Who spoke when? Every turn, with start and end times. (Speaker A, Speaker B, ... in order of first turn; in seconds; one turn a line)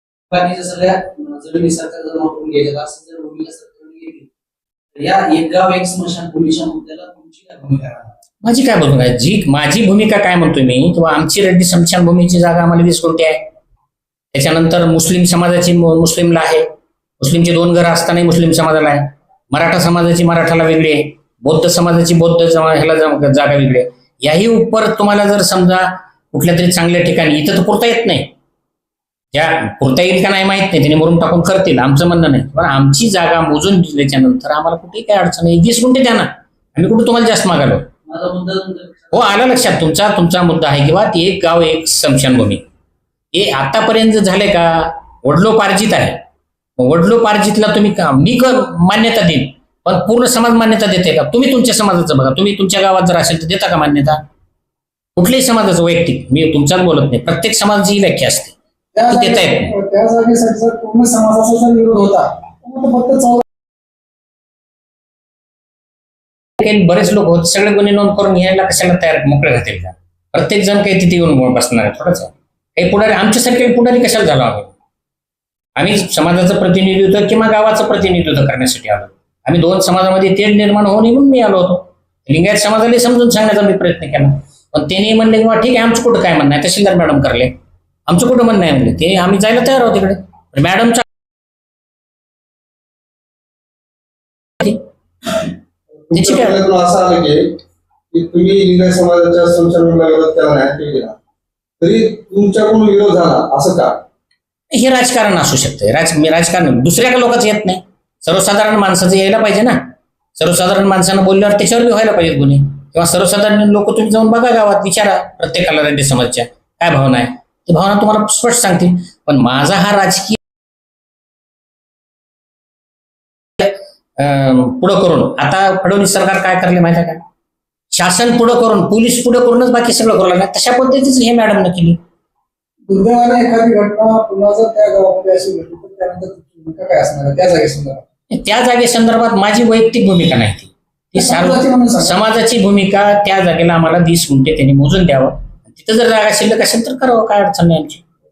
Speaker A: 0.3-4.3
Speaker A: 5.0-8.1
Speaker B: 8.4-13.4
Speaker B: 14.3-16.7
Speaker B: 17.2-28.3
Speaker B: 29.3-37.9
Speaker A: 38.1-39.5
Speaker B: 39.1-42.6
Speaker B: 43.3-46.2
Speaker B: 46.8-54.2
Speaker B: 55.2-58.5
Speaker C: 59.0-63.5
Speaker B: 59.1-59.8
Speaker B: 66.6-74.7
Speaker B: 75.8-87.5
Speaker B: 88.1-91.0
Speaker D: 96.1-97.5
Speaker B: 96.1-96.6
Speaker D: 98.1-101.2
Speaker D: 101.8-104.0
Speaker B: 104.7-120.4
Speaker B: 123.6-127.2
Speaker B: 127.9-132.0
Speaker C: 132.9-138.0
Speaker B: 138.3-148.0
Speaker C: 141.2-142.2